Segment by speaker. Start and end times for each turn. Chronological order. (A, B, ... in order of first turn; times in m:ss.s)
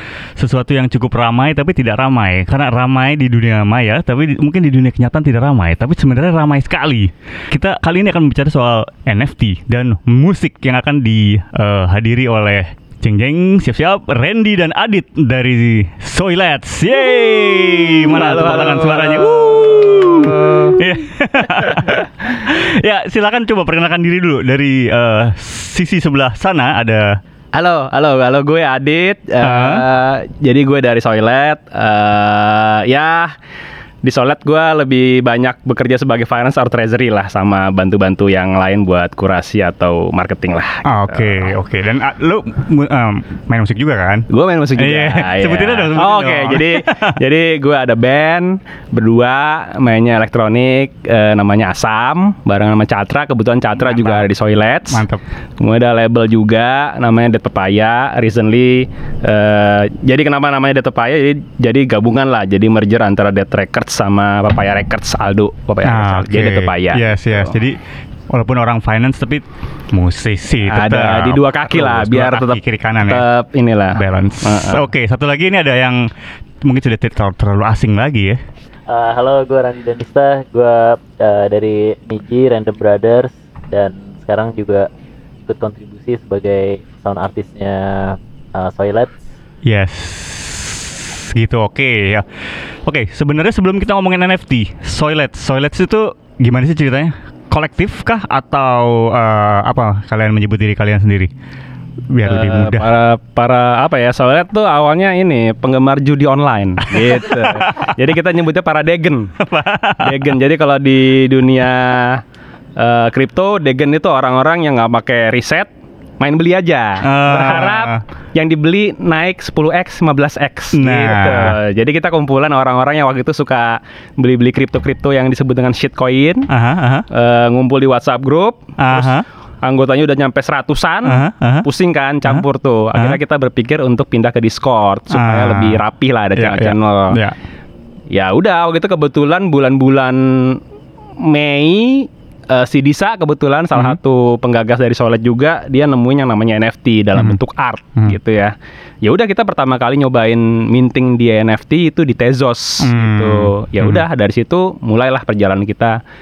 0:00.4-0:27.2 A
0:17.0-0:20.8 B
0:21.6-0:22.0 B
0:27.6-0:33.3 B
0:29.4-0:29.8 A
0:34.0-0:41.5 B
0:40.8-0:47.2 A
0:44.3-0:55.0 B
0:53.8-0:54.3 A
0:54.9-0:55.2 A
0:55.6-1:07.6 B
1:05.8-1:07.8 A
1:08.3-1:13.2 A
1:10.7-1:14.8 B
1:13.9-1:16.0 A
1:16.6-1:18.4 A
1:18.9-1:24.9 C
1:25.5-1:29.1 C
1:29.6-1:41.3 A
1:42.1-1:42.9 A
1:42.2-1:49.3 B
1:46.8-1:47.9 A
1:49.4-1:50.3 A
1:50.0-1:52.2 B
1:52.8-1:55.7 B
1:56.2-2:06.5 B
1:57.0-1:58.0 A
2:00.7-2:01.6 A
2:06.5-2:07.0 A
2:07.1-2:17.2 B
2:08.8-2:09.2 A
2:11.0-2:11.7 A
2:12.2-2:13.2 A
2:15.1-2:15.8 A
2:16.4-2:17.4 A
2:18.1-2:20.6 B
2:21.2-2:36.0 B
2:23.7-2:24.0 A
2:32.8-2:34.0 A